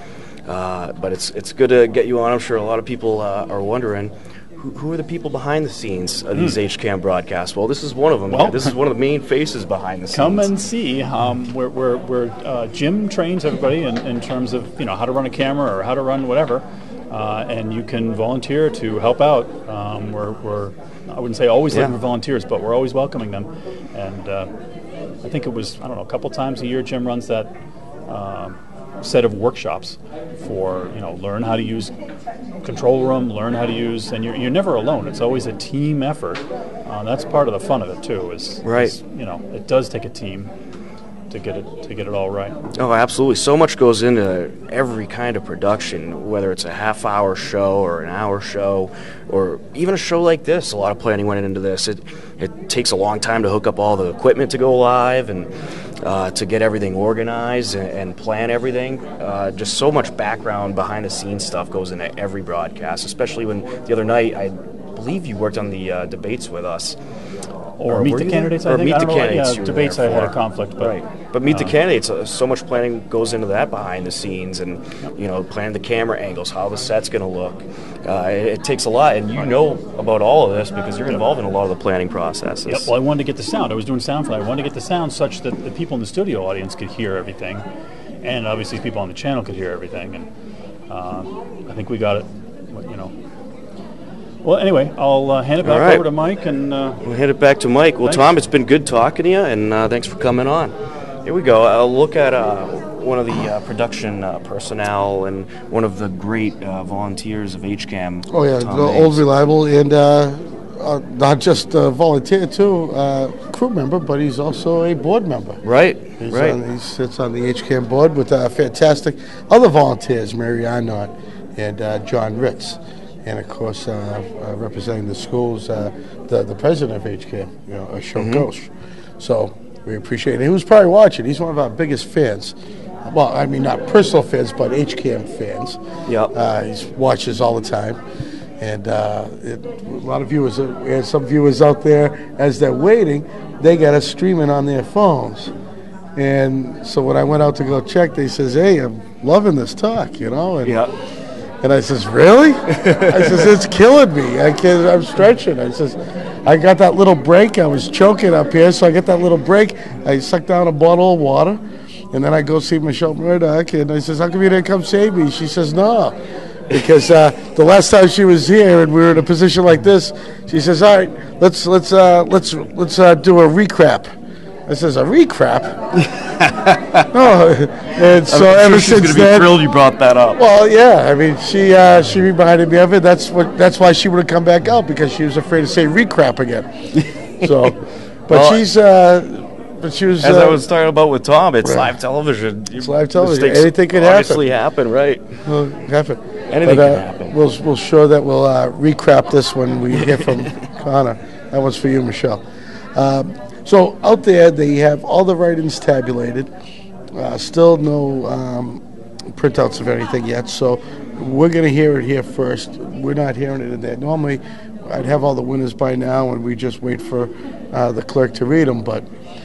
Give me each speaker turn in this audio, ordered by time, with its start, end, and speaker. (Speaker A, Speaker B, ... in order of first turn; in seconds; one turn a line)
Speaker A: 0.5-10.5
Speaker B: 6.3-6.6
Speaker B: 8.3-8.7
Speaker B: 10.1-24.5
Speaker B: 25.2-27.5
Speaker B: 28.1-31.9
Speaker B: 32.6-40.5
Speaker A: 38.6-39.0
Speaker B: 41.3-42.6
Speaker A: 42.8-55.5
Speaker A: 56.0-67.0
Speaker B: 67.8-71.8
Speaker A: 67.9-82.9
Speaker B: 82.7-87.6
Speaker B: 88.2-90.3
Speaker B: 90.9-93.1
Speaker B: 94.4-97.0
Speaker A: 95.6-96.1
Speaker A: 97.0-100.7
Speaker B: 98.0-98.4
Speaker A: 101.2-109.2
Speaker C: 108.3-115.6
Speaker A: 115.6-116.6
Speaker C: 116.2-135.8
Speaker A: 128.2-128.5
Speaker A: 136.1-136.3
Speaker C: 136.3-138.0
Speaker C: 138.6-145.5
Speaker C: 146.2-150.8
Speaker A: 150.6-150.9
Speaker C: 151.6-161.6
Speaker A: 152.7-153.4
Speaker C: 162.1-166.2
Speaker C: 166.7-174.1
Speaker C: 174.7-175.8
Speaker A: 176.0-177.1
Speaker C: 177.1-179.5
Speaker A: 178.2-180.4
Speaker C: 180.4-186.7
Speaker C: 187.4-190.6
Speaker A: 187.4-187.7
Speaker A: 188.3-188.6
Speaker A: 190.2-195.2
Speaker C: 191.6-191.9
Speaker C: 192.8-194.4
Speaker C: 195.4-202.4
Speaker A: 196.5-197.3
Speaker C: 202.9-206.5
Speaker C: 207.1-219.1